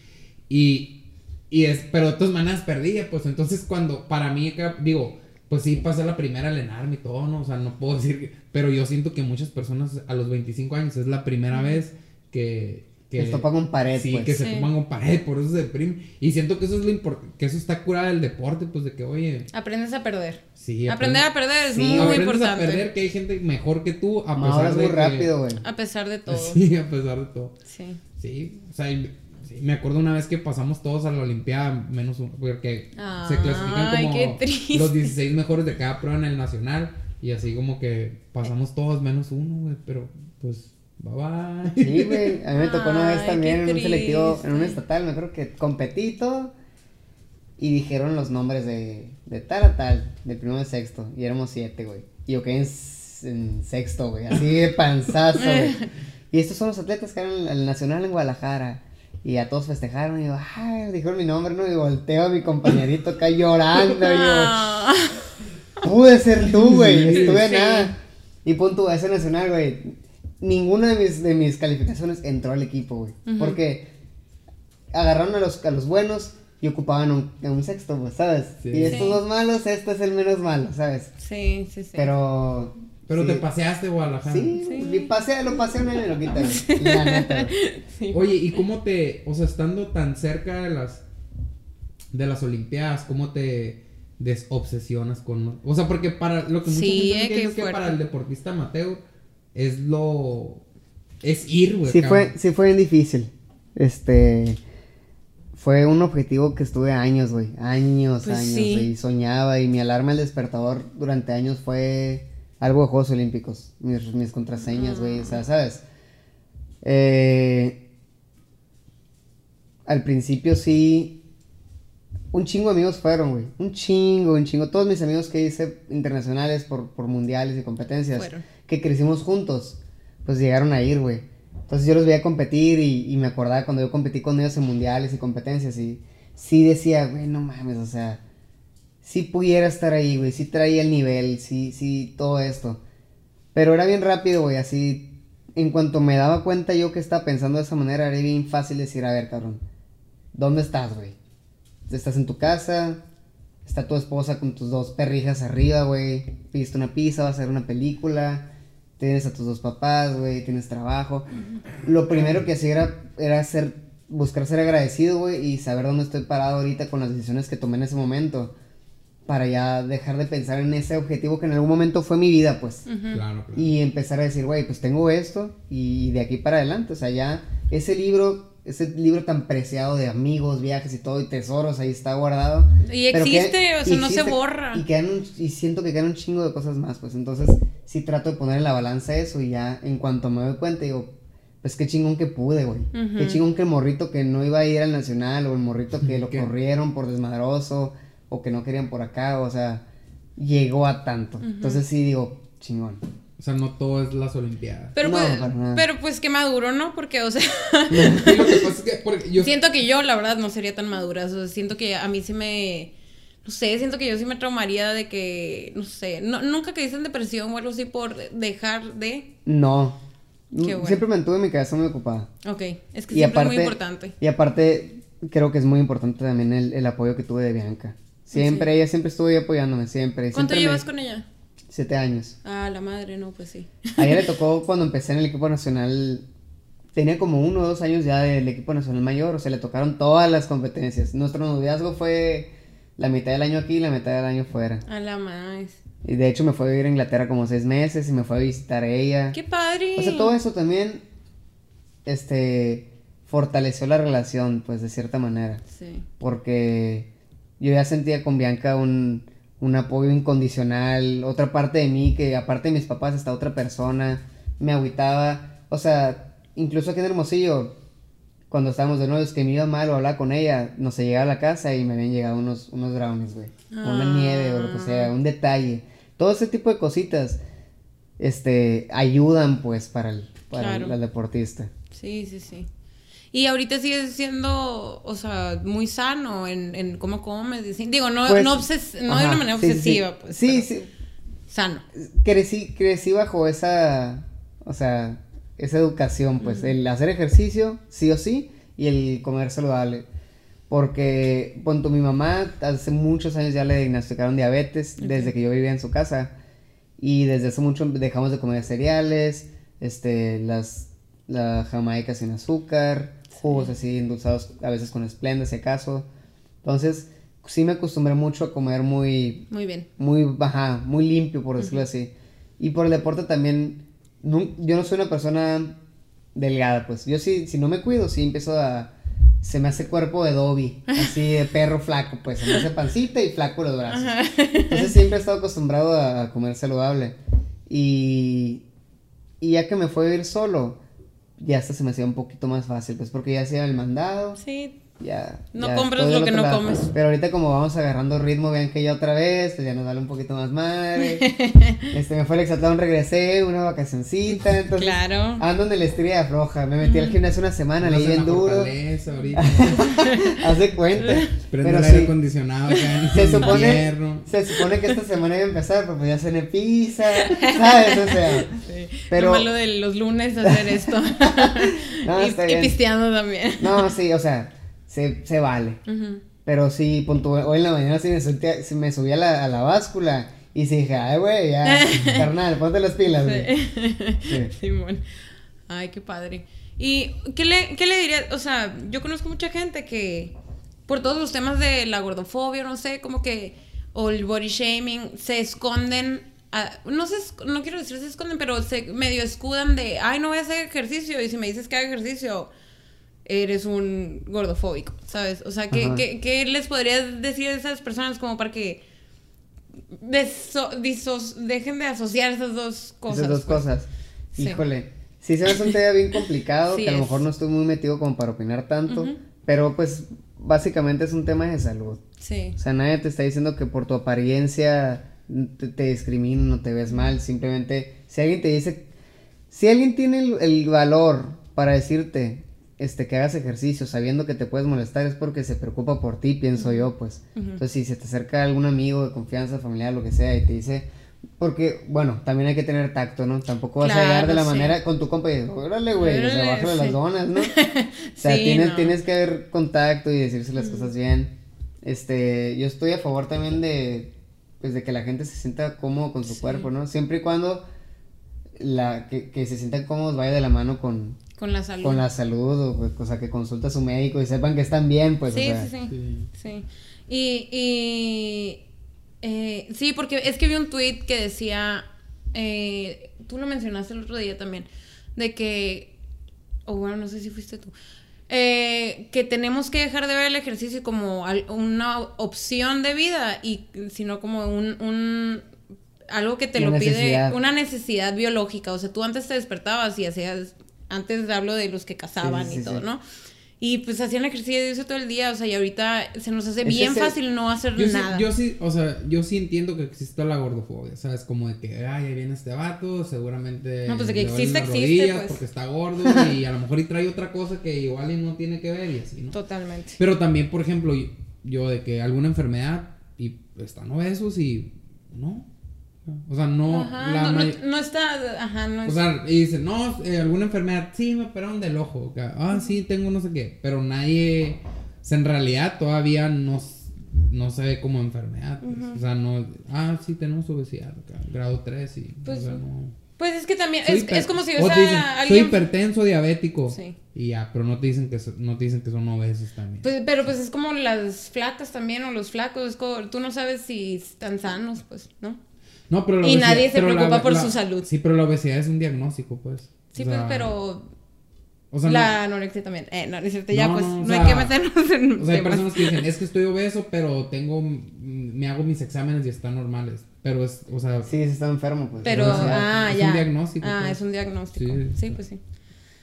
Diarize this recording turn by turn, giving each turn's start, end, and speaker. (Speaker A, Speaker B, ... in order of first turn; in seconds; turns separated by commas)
Speaker A: 0.5-19.5, Speaker B: 11.5-11.8, Speaker C: 13.2-14.4, Speaker B: 14.4-14.7, Speaker B: 19.5-22.9, Speaker A: 20.6-21.3, Speaker C: 21.7-22.2, Speaker A: 21.9-25.3, Speaker C: 24.4-25.6, Speaker B: 25.6-26.6, Speaker A: 26.3-27.6, Speaker B: 27.7-28.0, Speaker A: 28.2-42.4, Speaker B: 33.0-35.1, Speaker C: 41.7-46.5, Speaker B: 42.5-44.8, Speaker C: 47.6-55.8, Speaker B: 55.4-55.9, Speaker C: 56.3-64.6, Speaker B: 63.8-65.2, Speaker C: 65.8-73.9, Speaker A: 66.7-67.4, Speaker B: 67.1-67.9, Speaker B: 73.3-73.6, Speaker C: 74.9-81.1, Speaker A: 78.6-79.1, Speaker B: 78.8-79.2, Speaker B: 81.2-82.1, Speaker C: 82.0-83.5, Speaker A: 83.1-84.6, Speaker C: 84.3-87.5, Speaker B: 84.6-85.1, Speaker B: 86.4-88.3, Speaker A: 88.1-91.0, Speaker A: 92.1-99.0, Speaker B: 96.7-98.0, Speaker A: 99.5-100.6, Speaker A: 101.2-102.3, Speaker C: 101.9-104.6, Speaker C: 105.5-115.8, Speaker B: 108.2-108.9, Speaker B: 114.6-115.4, Speaker C: 116.8-117.8, Speaker C: 119.9-121.2, Speaker C: 122.3-138.2, Speaker B: 128.1-128.5, Speaker C: 139.0-142.8, Speaker C: 143.5-149.6, Speaker C: 150.3-151.2, Speaker C: 151.9-153.0, Speaker C: 153.6-161.3, Speaker C: 161.8-168.5, Speaker C: 169.3-172.9, Speaker B: 172.9-173.2, Speaker A: 173.1-173.7, Speaker C: 173.6-199.8, Speaker B: 182.8-184.8, Speaker B: 192.9-193.4, Speaker A: 196.0-196.5, Speaker C: 200.4-203.0, Speaker B: 201.4-201.8, Speaker A: 203.4-205.0, Speaker B: 205.0-208.6, Speaker C: 205.0-205.8, Speaker C: 207.9-208.4, Speaker A: 208.0-209.5, Speaker B: 209.4-212.9, Speaker B: 213.4-219.3, Speaker C: 219.4-220.0, Speaker C: 220.5-222.3, Speaker B: 220.6-221.0, Speaker B: 222.4-224.2, Speaker C: 223.1-230.8, Speaker B: 228.3-228.7, Speaker B: 230.3-231.3, Speaker C: 231.7-232.4, Speaker B: 232.4-234.3, Speaker C: 234.0-236.3, Speaker C: 236.9-244.8, Speaker B: 244.9-245.8, Speaker C: 246.0-249.4, Speaker B: 249.3-250.4, Speaker C: 250.0-251.0, Speaker C: 252.1-255.6, Speaker B: 255.7-256.1, Speaker C: 256.2-257.1, Speaker C: 257.6-267.8, Speaker C: 268.5-277.4, Speaker B: 273.7-275.1, Speaker C: 278.2-281.7, Speaker B: 280.5-281.0, Speaker B: 281.9-282.7, Speaker B: 283.3-290.7, Speaker C: 288.3-290.9, Speaker B: 291.5-291.8, Speaker C: 291.9-300.1, Speaker B: 296.4-296.7, Speaker C: 300.7-306.3, Speaker B: 305.0-305.3, Speaker C: 307.0-316.1, Speaker B: 313.3-313.7, Speaker C: 316.6-319.5, Speaker B: 319.5-319.9, Speaker C: 320.0-325.8, Speaker B: 321.6-321.8, Speaker C: 326.3-334.1, Speaker B: 330.9-331.1, Speaker B: 333.9-334.9, Speaker C: 334.7-337.2, Speaker C: 337.7-338.6, Speaker C: 339.4-340.8, Speaker C: 341.4-344.4, Speaker B: 344.4-344.8, Speaker C: 345.0-351.3, Speaker B: 345.5-346.9, Speaker B: 351.0-351.9, Speaker C: 351.9-358.7, Speaker B: 354.7-355.4, Speaker B: 356.8-357.2, Speaker A: 357.8-360.2, Speaker B: 359.1-360.3, Speaker C: 359.4-362.1, Speaker A: 360.9-364.3, Speaker B: 362.7-363.6, Speaker C: 363.1-368.5, Speaker B: 364.5-365.0, Speaker B: 367.1-373.9, Speaker C: 369.1-369.5, Speaker C: 370.4-372.8, Speaker C: 373.6-375.8, Speaker B: 375.9-376.2, Speaker C: 376.4-383.5, Speaker B: 381.6-382.3, Speaker B: 383.2-385.0, Speaker C: 384.2-384.5, Speaker B: 385.7-390.3, Speaker B: 390.9-402.5, Speaker B: 403.2-408.8, Speaker C: 405.7-406.0, Speaker B: 409.9-413.7, Speaker C: 413.1-422.0, Speaker B: 414.4-414.6, Speaker B: 416.7-417.2, Speaker B: 418.9-419.2, Speaker B: 422.2-422.6, Speaker C: 422.6-428.9, Speaker C: 429.5-440.9, Speaker B: 436.6-437.6, Speaker C: 441.4-447.5, Speaker B: 443.8-444.8, Speaker B: 445.9-449.0, Speaker C: 448.2-451.3, Speaker B: 450.6-450.9, Speaker C: 451.8-457.7, Speaker B: 456.3-456.7, Speaker C: 458.6-461.2, Speaker B: 461.4-462.1, Speaker C: 461.8-465.7, Speaker B: 465.3-468.6, Speaker A: 465.9-466.3, Speaker B: 469.2-475.9, Speaker B: 476.7-477.7, Speaker B: 478.3-485.5, Speaker B: 486.1-493.0, Speaker C: 486.6-487.4, Speaker C: 492.2-492.9, Speaker B: 493.6-498.3, Speaker C: 496.6-497.2, Speaker A: 497.8-509.4, Speaker B: 503.9-505.4, Speaker B: 509.3-510.0, Speaker A: 510.0-515.5, Speaker A: 516.1-517.6, Speaker B: 516.7-519.0, Speaker A: 518.9-533.0, Speaker B: 528.6-529.0, Speaker B: 532.2-532.6, Speaker B: 533.2-535.6, Speaker A: 533.9-539.9, Speaker B: 536.7-537.0, Speaker B: 539.8-545.4, Speaker A: 545.9-550.5, Speaker B: 546.2-547.9, Speaker B: 549.9-550.9, Speaker A: 551.7-552.2, Speaker B: 551.8-556.0, Speaker A: 553.5-554.6, Speaker A: 555.2-561.1, Speaker C: 561.0-562.6, Speaker B: 562.0-565.4, Speaker A: 562.1-564.0, Speaker A: 564.5-565.2